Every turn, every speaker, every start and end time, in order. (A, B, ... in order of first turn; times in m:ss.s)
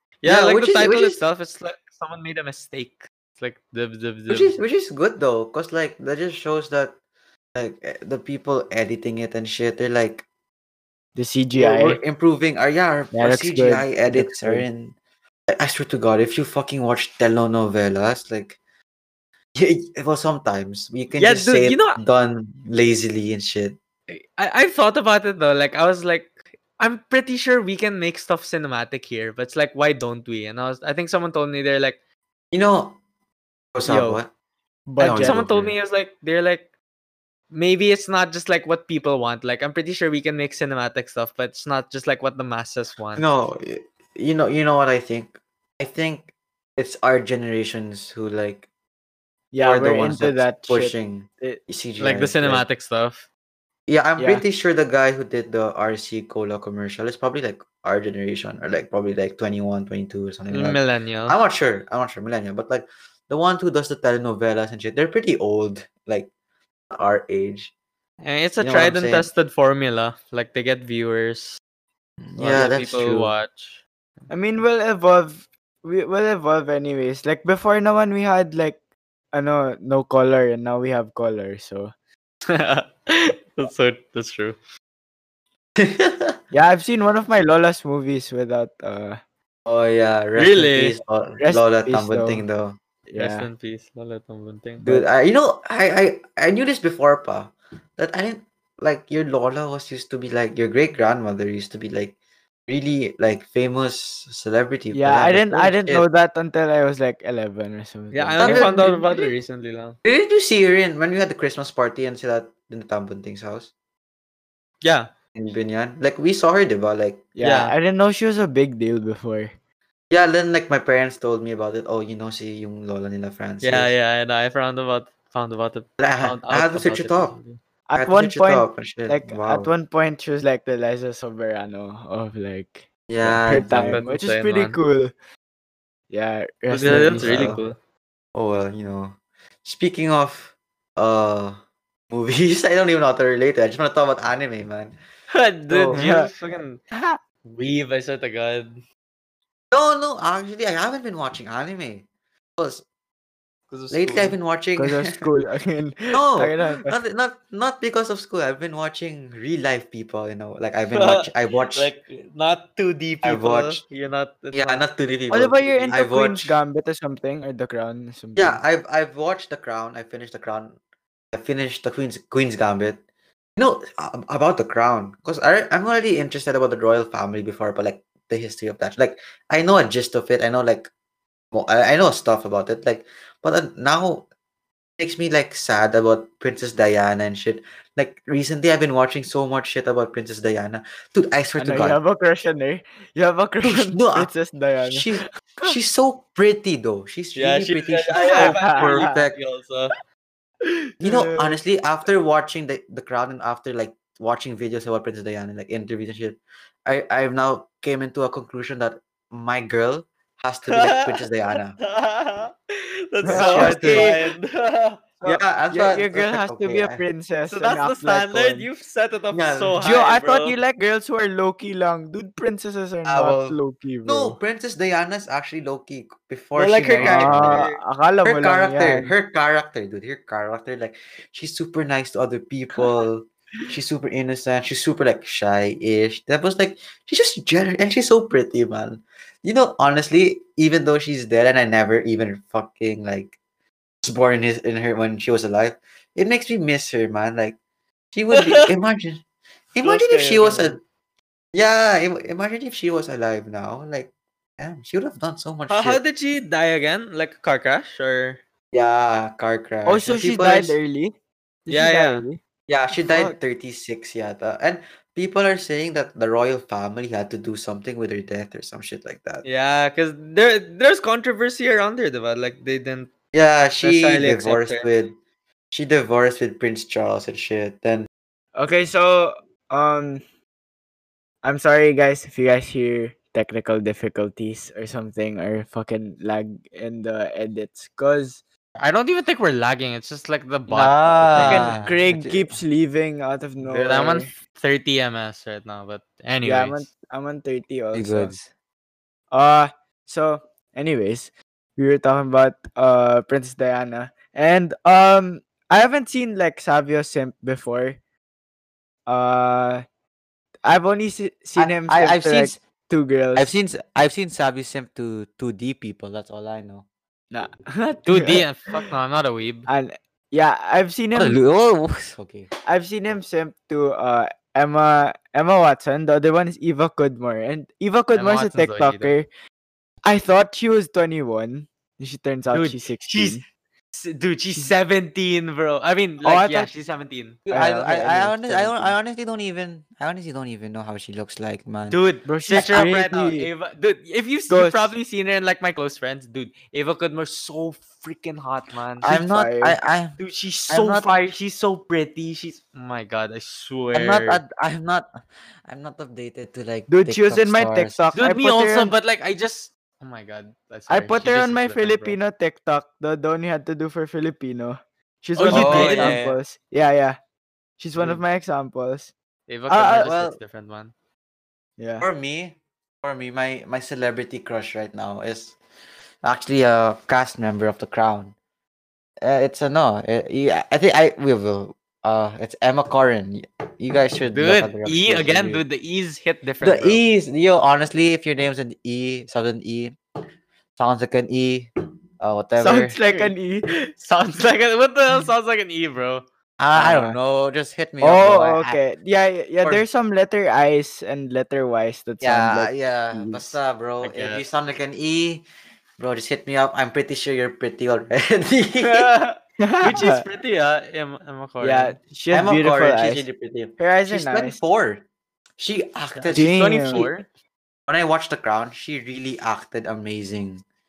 0:00.2-0:04.6 A
0:00.2-0:01.2 B
0:04.3-0:07.0 B
0:07.5-0:10.2 B
0:11.2-0:12.0 C
0:11.6-0:14.9 B
0:13.1-0:14.7 C
0:15.5-0:18.6 B
0:19.5-0:23.8 B
0:21.1-0:22.0 A
0:24.1-0:32.0 A
0:32.5-0:33.0 B
0:33.7-0:34.3 B
0:33.8-0:34.2 C
0:34.9-0:35.4 C
0:35.0-0:35.8 B
0:35.0-0:36.7 A
0:37.5-0:43.2 A
0:43.2-0:48.6 B
0:49.5-0:51.6 C
0:49.6-0:52.6 B
0:52.0-0:53.3 A
0:53.9-1:06.3 B
0:54.2-0:54.4 C
1:00.5-1:01.4 A
1:06.9-1:07.7 B
1:08.2-1:11.6 A
1:08.6-1:09.3 B
1:12.2-1:13.3 B
1:12.4-1:13.8 A
1:14.3-1:18.8 C
1:19.3-1:21.9 C
1:22.4-1:24.6 A
1:25.8-1:26.4 B
1:26.5-1:29.2 C
1:29.6-1:32.8 B
1:30.4-1:31.0 A
1:31.4-1:32.4 C
1:33.1-1:33.5 C
1:33.2-1:34.8 A
1:34.8-1:35.0 C
1:34.8-1:42.2 B
1:42.7-1:46.0 B
1:44.9-1:49.2 C
1:48.1-1:50.0 A
1:48.4-1:48.9 B
1:50.0-1:53.7 B
1:54.8-1:55.1 A
1:55.4-1:57.2 B
1:57.4-1:59.5 C
1:57.4-1:57.7 A
2:00.1-2:03.9 B
2:03.6-2:07.6 A
2:06.0-2:07.3 B
2:07.9-2:15.1 C
2:07.9-2:09.7 B
2:13.1-2:14.0 B
2:13.7-2:14.8 A
2:16.1-2:17.6 C
2:16.7-2:17.8 A
2:16.9-2:17.6 B
2:18.3-2:25.0 B
2:25.3-2:26.8 A
2:25.7-2:26.0 B
2:25.9-2:26.3 C
2:26.9-2:27.2 C
2:27.4-2:28.8 A
2:29.7-2:32.0 B
2:32.6-2:32.8 B
2:33.7-2:34.4 A
2:33.9-2:35.3 B
2:34.8-2:37.0 C
2:36.1-2:41.9 B
2:40.9-2:44.8 A
2:43.2-2:43.8 B
2:44.5-2:46.6 B
2:45.3-2:48.6 C
2:48.4-2:50.8 B
2:51.3-2:53.0 B
2:53.6-3:00.9 B
3:01.5-3:04.3 B
3:05.0-3:12.0 B
3:11.6-3:15.7 C
3:13.6-3:14.3 B
3:14.8-3:19.3 B
3:17.3-3:19.9 A
3:18.2-3:19.1 C
3:20.6-3:21.6 C
3:21.0-3:31.8 B
3:30.7-3:31.2 A
3:31.8-3:35.0 A
3:33.2-3:34.2 B
3:33.2-3:34.2 C
3:35.2-3:38.7 C
3:35.2-3:37.0 B
3:37.5-3:40.6 A
3:39.3-3:39.8 B
3:39.8-3:44.4 C
3:43.0-3:47.7 B
3:46.5-3:47.8 A
3:47.0-3:49.1 C
3:48.2-4:03.3 B
4:04.0-4:07.6 B
4:08.1-4:09.2 B
4:08.3-4:08.7 A
4:09.7-4:10.8 B
4:09.8-4:10.8 A
4:11.5-4:16.0 B
4:15.7-4:18.4 A
4:18.7-4:20.8 B
4:19.8-4:21.1 C
4:21.7-4:22.4 C
4:21.7-4:22.2 A
4:22.7-4:29.4 B
4:22.9-4:23.4 C
4:29.4-4:33.1 A
4:33.3-4:35.2 B
4:33.8-4:34.8 A
4:35.7-4:38.1 B
4:38.6-4:40.2 C
4:41.4-4:48.4 C
4:48.8-4:51.9 A
4:50.7-4:52.6 B
4:51.4-4:54.3 C
4:53.6-4:56.8 A
4:56.4-4:58.4 C
4:57.9-4:58.5 B
4:59.3-5:08.0 C
5:09.1-5:09.8 C
5:10.6-5:13.5 C
5:11.6-5:12.6 B
5:13.3-5:16.8 B
5:17.3-5:18.4 C
5:18.0-5:19.7 A
5:19.7-5:21.4 C
5:21.1-5:22.5 B
5:22.6-5:29.2 C
5:28.1-5:29.2 A
5:30.0-5:33.4 C
5:32.5-5:33.4 A
5:33.9-5:37.4 A
5:36.2-5:36.7 C
5:37.5-5:42.0 B
5:37.5-5:39.0 C
5:41.9-5:49.1 A
5:42.2-5:43.5 C
5:44.5-5:44.9 C
5:49.0-5:51.1 B
5:49.0-5:49.8 C
5:50.2-5:54.4 A
5:53.9-5:55.1 B
5:55.7-5:58.0 B
5:56.9-5:58.9 C
5:58.1-6:02.2 A
6:00.9-6:07.2 C
6:05.4-6:06.4 A
6:05.4-6:06.2 B
6:07.8-6:09.1 C
6:09.5-6:10.9 A
6:09.7-6:10.1 C
6:10.0-6:10.4 B
6:11.8-6:12.0 C
6:12.0-6:15.5 B
6:16.2-6:18.3 B
6:19.2-6:25.6 B
6:24.3-6:27.0 A
6:26.6-6:30.0 B
6:30.8-6:31.7 B
6:32.2-6:33.0 B
6:32.6-6:33.7 C
6:32.6-6:36.2 A
6:36.6-6:38.8 B
6:36.7-6:37.2 C
6:38.0-6:43.6 C
6:42.2-6:45.4 B
6:44.0-6:44.4 A
6:46.0-6:49.1 B
6:48.8-6:52.0 A
6:49.6-6:50.2 C
6:51.6-6:53.3 C
6:52.3-6:55.0 B
6:53.8-6:54.6 C
6:55.6-6:57.1 B
6:56.2-6:57.2 A
6:56.3-6:57.1 C
6:57.9-7:00.6 B